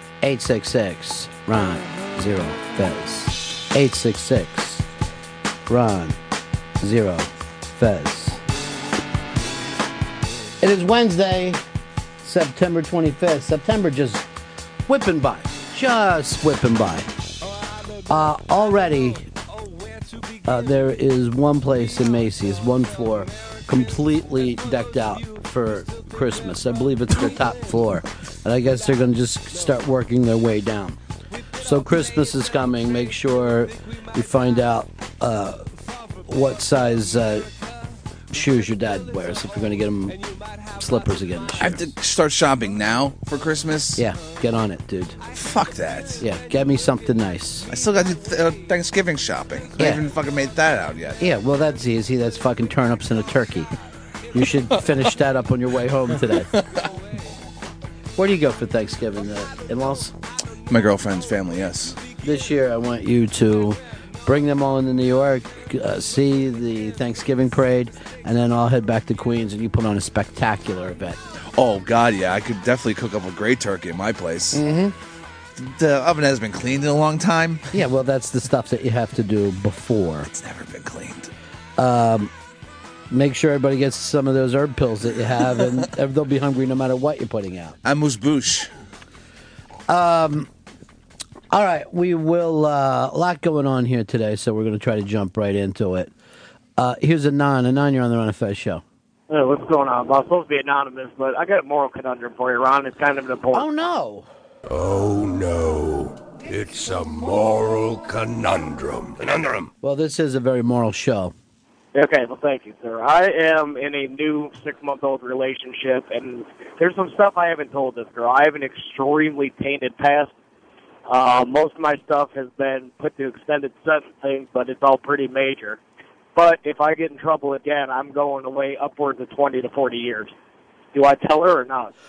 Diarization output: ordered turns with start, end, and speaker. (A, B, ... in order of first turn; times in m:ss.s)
0:00.2-0:04.8 A
0:05.7-0:06.2 A
0:06.8-0:08.4 A
0:10.6-0:11.6 A
0:12.2-0:14.3 A
0:14.9-0:17.1 A
0:18.1-0:19.3 A
0:20.4-0:31.0 A
0:31.6-0:35.7 A
0:36.2-0:37.5 A
0:38.3-0:40.2 A
0:40.7-0:41.9 A
0:41.6-0:44.0 B
0:44.0-0:45.2 A
0:45.3-0:46.2 B
0:46.2-0:47.7 A
0:47.7-0:51.2 B
0:49.8-0:50.1 A
0:51.2-0:53.7 A
0:54.3-0:56.5 A
0:58.2-1:00.1 A
1:00.7-1:02.0 B
1:02.2-1:11.2 A
1:11.5-1:14.6 B
1:14.5-1:14.9 A
1:15.6-1:17.7 B
1:17.7-1:20.3 A
1:20.3-1:21.3 B
1:21.8-1:22.3 A
1:23.1-1:27.8 A
1:27.8-1:28.7 B
1:29.9-1:30.5 A
1:31.5-1:36.1 A
1:36.8-1:38.8 A
1:39.3-1:43.8 C
1:43.5-1:44.3 A
1:44.7-1:49.7 D
1:49.8-1:51.3 A
1:51.9-2:00.3 C
2:01.1-2:05.8 C
2:06.3-2:10.3 C
2:10.9-2:11.9 C